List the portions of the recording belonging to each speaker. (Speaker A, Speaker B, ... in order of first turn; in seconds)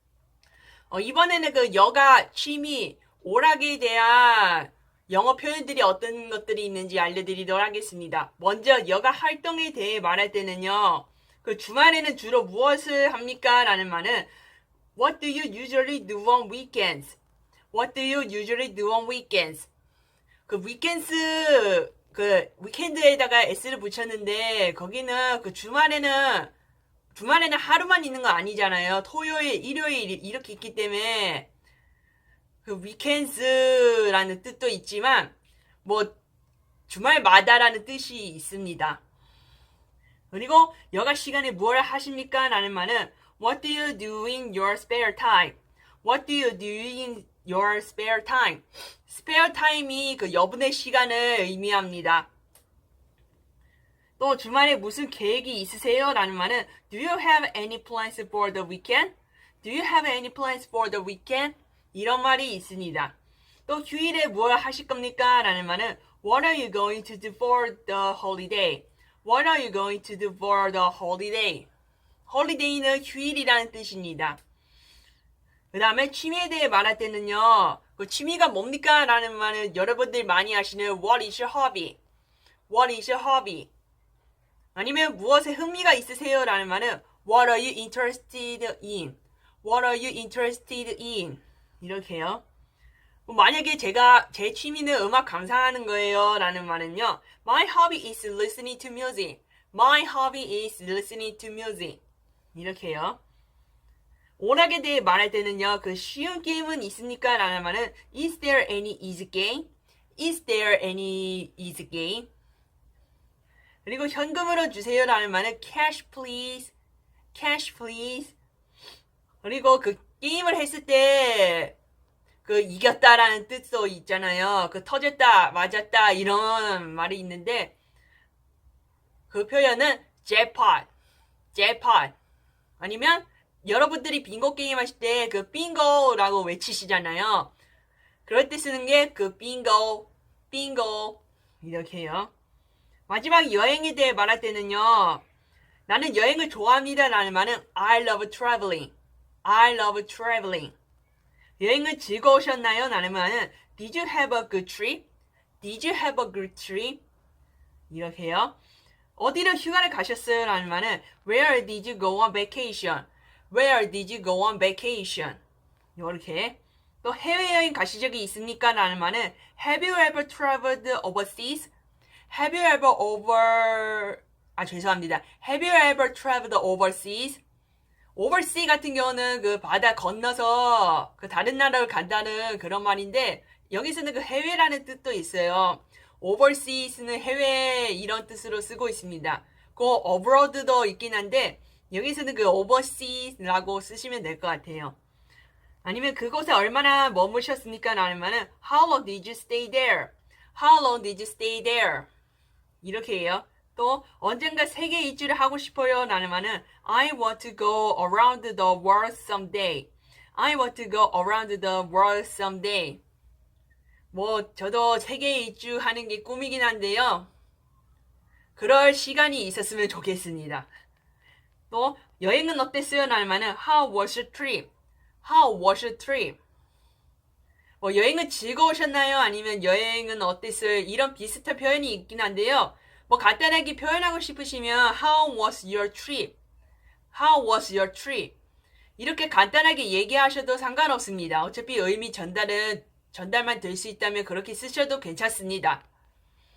Speaker A: 0.9-14.3, 14.9-17.2, 17.7-19.7, 20.5-26.5, 27.1-31.5, 32.6-36.2, 36.9-39.0, 40.3-52.3, 54.2-63.1, 63.7-71.7, 72.3-74.4, 75.7-82.0, 82.7-83.7, 84.8-92.4, 93.3-102.0, 102.5-103.2, 104.4-112.3, 113.8-116.7, 117.3-118.3, 119.4-121.8, 122.4-127.8, 129.3-130.9, 131.5-132.1, 132.8-137.5, 138.2-142.3, 143.1-145.2, 145.9-148.9, 149.4-150.8, 151.6-155.1, 155.6-157.0, 157.9-158.6, 159.2-165.4, 166.0-171.7, 172.3-177.4, 178.2-195.0, 195.8-202.1, 202.8-213.0, 214.1-217.3, 218.6-220.7, 221.7-224.7, 225.2-226.4, 227.8-236.3, 237.1-238.3, 239.0-245.8